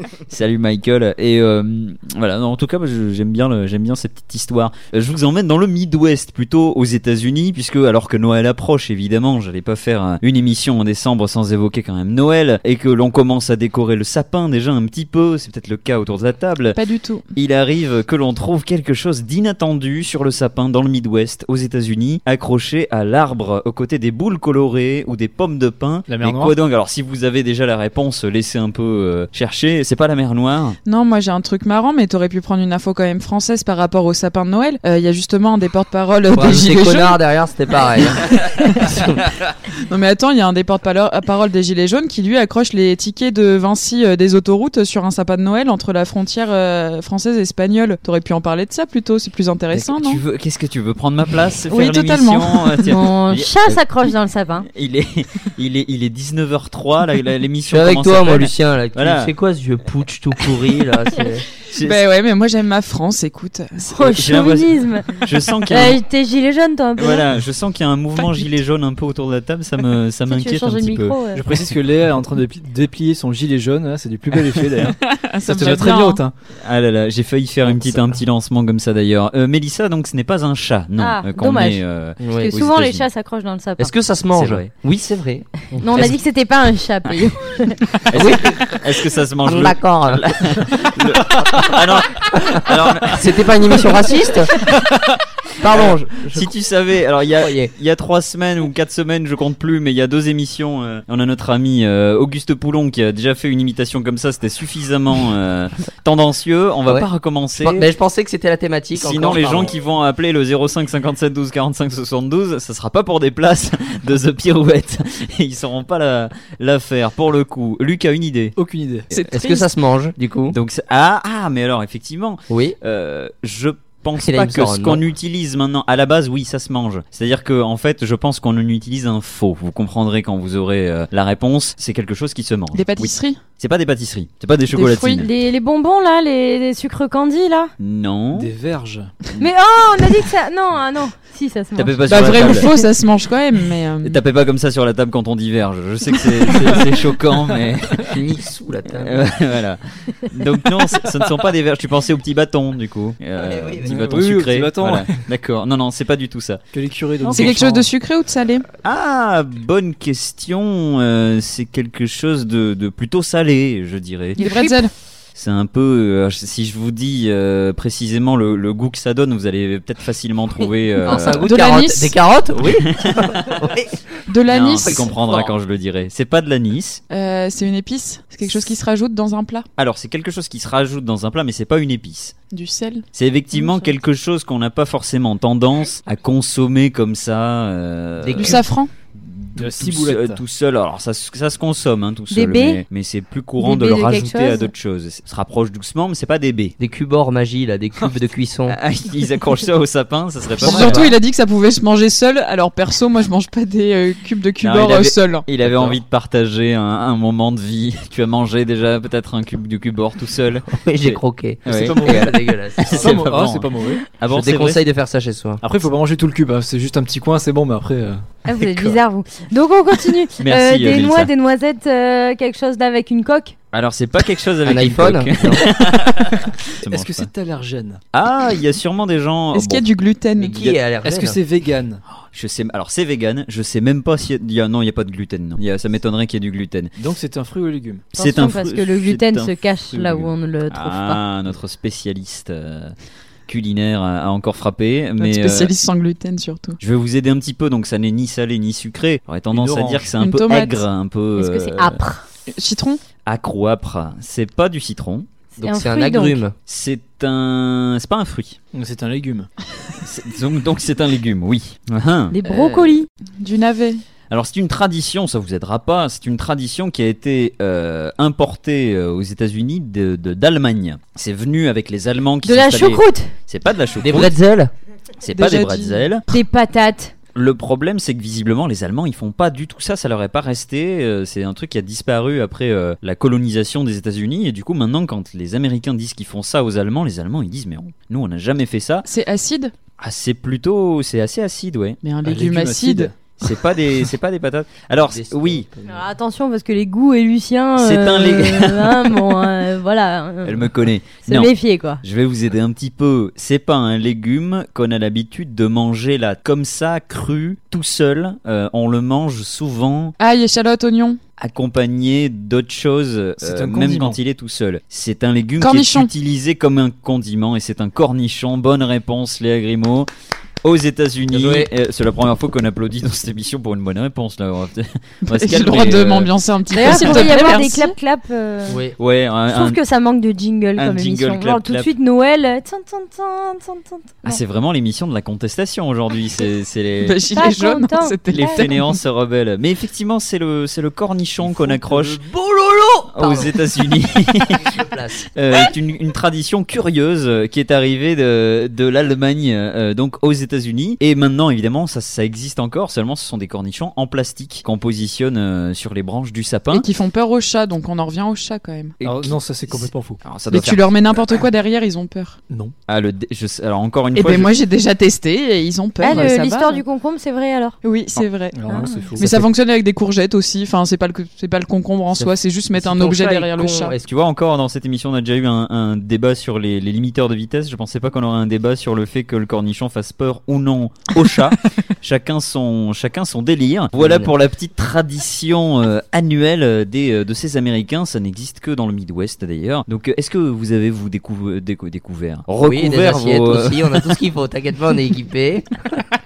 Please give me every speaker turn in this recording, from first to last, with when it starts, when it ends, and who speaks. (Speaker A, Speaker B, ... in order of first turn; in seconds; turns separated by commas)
Speaker A: 0.3-16.8, Speaker B: 16.8-17.2, Speaker A: 17.4-30.8, Speaker C: 26.1-26.6, Speaker B: 30.9-37.2, Speaker D: 36.3-39.2, Speaker B: 38.3-39.0, Speaker B: 39.9-50.2, Speaker A: 49.7-53.8, Speaker B: 51.7-52.8, Speaker E: 52.8-54.7, Speaker A: 54.6-59.3, Speaker D: 57.7-61.5, Speaker A: 61.7-62.0, Speaker B: 61.8-63.9, Speaker E: 63.9-67.3, Speaker A: 64.0-66.0, Speaker A: 67.0-71.2, Speaker E: 70.3-71.5, Speaker C: 71.3-76.3, Speaker B: 75.0-76.2, Speaker A: 76.6-83.1, Speaker D: 77.7-78.2, Speaker E: 81.0-83.9, Speaker D: 82.2-82.6, Speaker D: 83.8-86.2, Speaker A: 84.3-84.7, Speaker E: 85.8-87.8, Speaker A: 88.1-93.8, Speaker D: 88.1-90.4, Speaker D: 91.0-94.7, Speaker D: 95.6-96.5, Speaker A: 95.7-107.9, Speaker D: 97.4-97.7, Speaker D: 106.9-109.8, Speaker A: 109.0-118.6, Speaker C: 118.6-119.1, Speaker B: 119.1-119.7, Speaker D: 119.2-120.6, Speaker A: 120.5-135.3, Speaker D: 122.5-122.8, Speaker D: 124.2-125.1, Speaker B: 132.7-133.4, Speaker B: 134.7-135.2, Speaker E: 135.2-137.7, Speaker A: 137.8-138.5, Speaker C: 138.3-139.1, Speaker E: 139.4-142.8, Speaker A: 141.8-142.7, Speaker B: 142.1-144.2, Speaker A: 144.0-148.3, Speaker D: 148.1-149.4, Speaker A: 148.9-156.6, Speaker D: 153.4-154.1, Speaker C: 153.8-155.2, Speaker C: 156.7-157.9, Speaker A: 157.2-157.6, Speaker B: 157.3-158.7, Speaker A: 158.8-164.4, Speaker B: 164.4-164.9, Speaker A: 165.3-171.5, Speaker D: 170.6-173.9, Speaker B: 171.4-172.2, Speaker A: 172.6-173.8, Speaker B: 174.3-175.1, Speaker A: 174.5-177.0, Speaker D: 174.8-175.6, Speaker B: 177.1-179.7, Speaker A: 179.8-182.3, Speaker B: 182.5-183.1, Speaker A: 183.1-188.6, Speaker D: 188.2-188.7, Speaker B: 188.4-188.9, Speaker A: 189.2-196.8, Speaker C: 189.6-190.4, Speaker E: 192.3-192.8, Speaker E: 193.6-194.7, Speaker D: 196.8-198.8, Speaker A: 198.7-201.1, Speaker D: 200.6-201.2, Speaker B: 200.6-205.5, Speaker A: 204.6-214.8, Speaker C: 205.7-206.0, Speaker D: 210.8-213.2, Speaker C: 211.7-212.3, Speaker C: 212.8-214.1, Speaker D: 214.2-215.6, Speaker C: 215.6-218.4, Speaker E: 218.4-223.6, Speaker A: 220.4-221.3, Speaker A: 223.7-227.3, Speaker D: 224.6-225.8, Speaker C: 226.9-228.0, Speaker A: 228.1-229.8, Speaker B: 229.5-230.6, Speaker D: 230.4-231.4, Speaker C: 231.0-232.0, Speaker A: 232.3-236.9, Speaker C: 237.0-238.1, Speaker E: 238.1-241.2, Speaker A: 238.2-239.5, Speaker C: 239.9-240.3, Speaker A: 240.7-242.9, Speaker A: 243.5-245.7, Speaker B: 245.2-246.8, Speaker A: 246.8-252.0, Speaker C: 249.5-250.1, Speaker B: 250.2-250.8, Speaker E: 251.4-252.2, Speaker B: 252.5-253.0, Speaker A: 253.3-255.3, Speaker E: 255.6-256.4, Speaker D: 255.6-256.5, Speaker A: 256.7-258.6, Speaker C: 258.7-259.5, Speaker A: 260.0-262.9, Speaker E: 262.3-263.1, Speaker B: 263.4-264.0, Speaker A: 264.3-274.4, Speaker E: 272.4-273.3, Speaker D: 274.0-274.7, Speaker A: 275.2-276.2, Speaker B: 275.3-276.0, Speaker E: 276.3-277.1, Speaker A: 277.4-289.1, Speaker B: 289.1-289.7, Speaker A: 290.0-292.0, Speaker B: 292.0-293.1, Speaker C: 292.2-293.1, Speaker A: 293.4-295.7, Speaker D: 295.1-296.1, Speaker E: 295.9-302.0, Speaker A: 297.8-299.2, Speaker A: 300.4-310.1, Speaker B: 310.2-311.2, Speaker A: 311.4-320.1, Speaker C: 313.4-314.2, Speaker B: 315.6-316.1, Speaker A: 320.6-326.3, Speaker D: 321.3-321.7, Speaker B: 325.3-328.0, Speaker E: 326.7-328.8, Speaker A: 326.9-327.3, Speaker D: 328.7-329.0, Speaker A: 329.0-329.8, Speaker E: 329.5-334.4, Speaker A: 330.8-331.9, Speaker A: 334.2-337.2, Speaker B: 337.0-339.0, Speaker E: 337.3-338.7, Speaker A: 338.3-342.2, Speaker D: 341.4-343.6, Speaker A: 343.1-344.6, Speaker D: 344.5-345.7, Speaker A: 345.3-356.9, Speaker B: 356.7-358.9, Speaker A: 359.0-361.2, Speaker C: 359.0-360.2, Speaker B: 360.5-362.4, Speaker A: 362.9-364.5, Speaker B: 364.1-366.8, Speaker E: 366.0-367.8, Speaker B: 367.8-374.0, Speaker C: 368.5-369.5, Speaker E: 368.7-369.2, Speaker D: 372.1-374.1, Speaker A: 374.0-394.1, Speaker D: 383.9-384.3, Speaker D: 392.6-395.7